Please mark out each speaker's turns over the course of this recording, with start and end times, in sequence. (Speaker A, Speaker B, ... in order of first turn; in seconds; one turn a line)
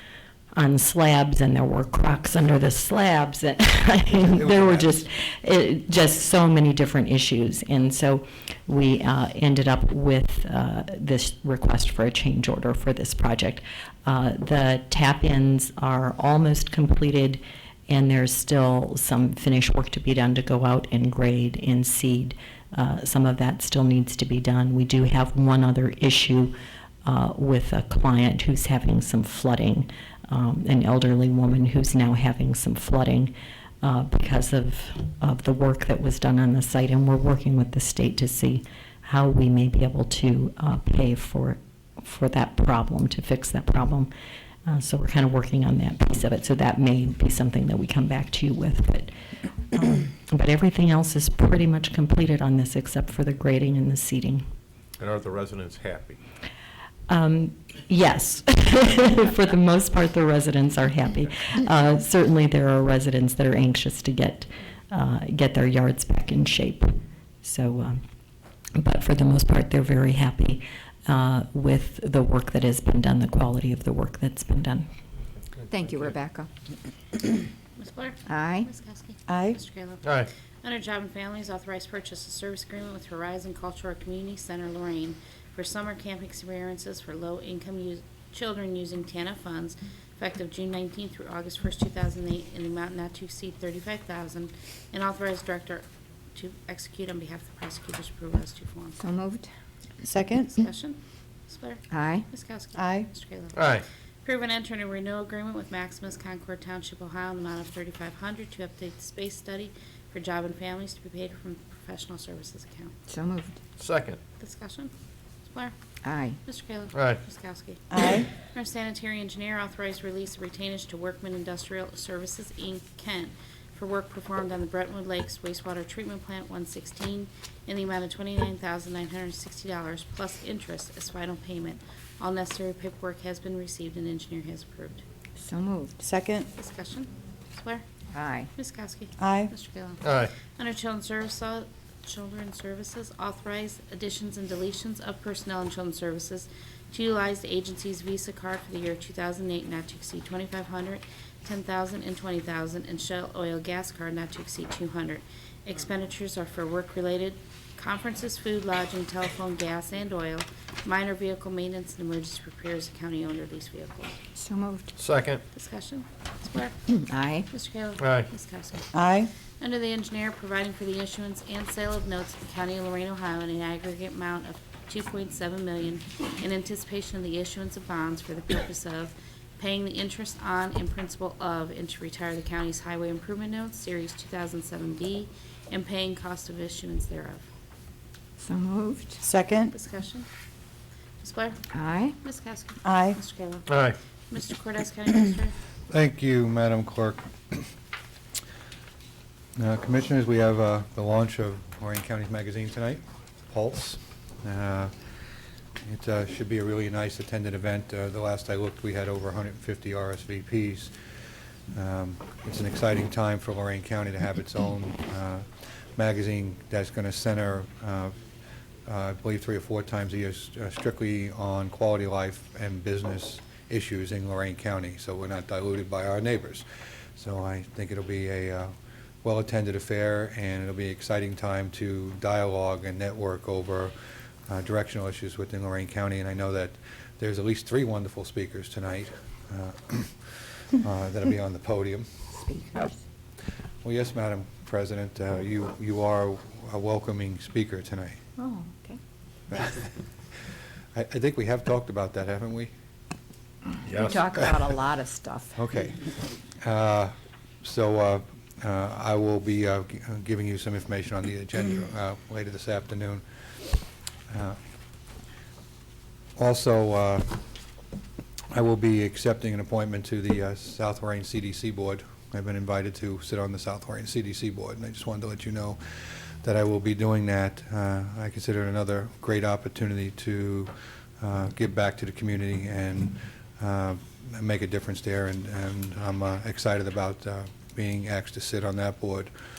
Speaker A: 0.5-26.5
Speaker B: 4.3-5.0
Speaker A: 27.0-44.1
Speaker A: 44.6-49.1
Speaker A: 49.7-54.4
Speaker C: 55.0-56.2
Speaker A: 57.1-68.0
Speaker A: 68.8-74.9
Speaker C: 75.6-76.1
Speaker D: 75.7-76.5
Speaker E: 77.8-99.0
Speaker D: 78.3-78.7
Speaker F: 79.3-79.6
Speaker C: 80.0-80.3
Speaker D: 99.0-99.5
Speaker F: 100.0-100.6
Speaker E: 100.1-112.9
Speaker D: 101.9-102.3
Speaker F: 102.7-103.1
Speaker C: 103.5-103.8
Speaker D: 113.1-113.6
Speaker C: 113.8-114.2
Speaker E: 114.4-114.9
Speaker E: 115.5-115.7
Speaker D: 116.0-116.4
Speaker E: 116.4-135.0
Speaker C: 116.9-117.2
Speaker F: 117.9-118.3
Speaker D: 135.3-136.0
Speaker F: 136.0-136.5
Speaker E: 136.6-137.8
Speaker D: 138.1-138.5
Speaker E: 138.6-164.2
Speaker F: 139.2-139.5
Speaker C: 140.0-140.3
Speaker D: 164.3-164.9
Speaker C: 165.0-165.4
Speaker E: 165.5-166.9
Speaker D: 166.9-167.5
Speaker E: 167.5-168.9
Speaker C: 168.0-168.3
Speaker F: 168.9-169.3
Speaker E: 169.6-187.4
Speaker D: 188.4-189.2
Speaker F: 189.2-189.7
Speaker E: 189.7-190.3
Speaker E: 191.2-195.5
Speaker D: 191.7-192.1
Speaker F: 192.8-193.2
Speaker C: 193.7-194.0
Speaker B: 195.9-197.7
Speaker B: 199.6-204.9
Speaker B: 205.8-210.9
Speaker B: 211.7-218.1
Speaker B: 218.8-226.6
Speaker B: 227.2-233.9
Speaker B: 234.5-242.1
Speaker D: 242.3-243.0
Speaker B: 243.8-248.2
Speaker D: 248.4-249.0
Speaker B: 249.5-249.8
Speaker B: 250.9-252.7
Speaker C: 253.8-254.2
Speaker D: 253.9-255.6
Speaker B: 255.6-256.1
Speaker B: 256.6-263.2
Speaker B: 264.3-264.6
Speaker B: 266.4-267.4
Speaker B: 268.5-289.3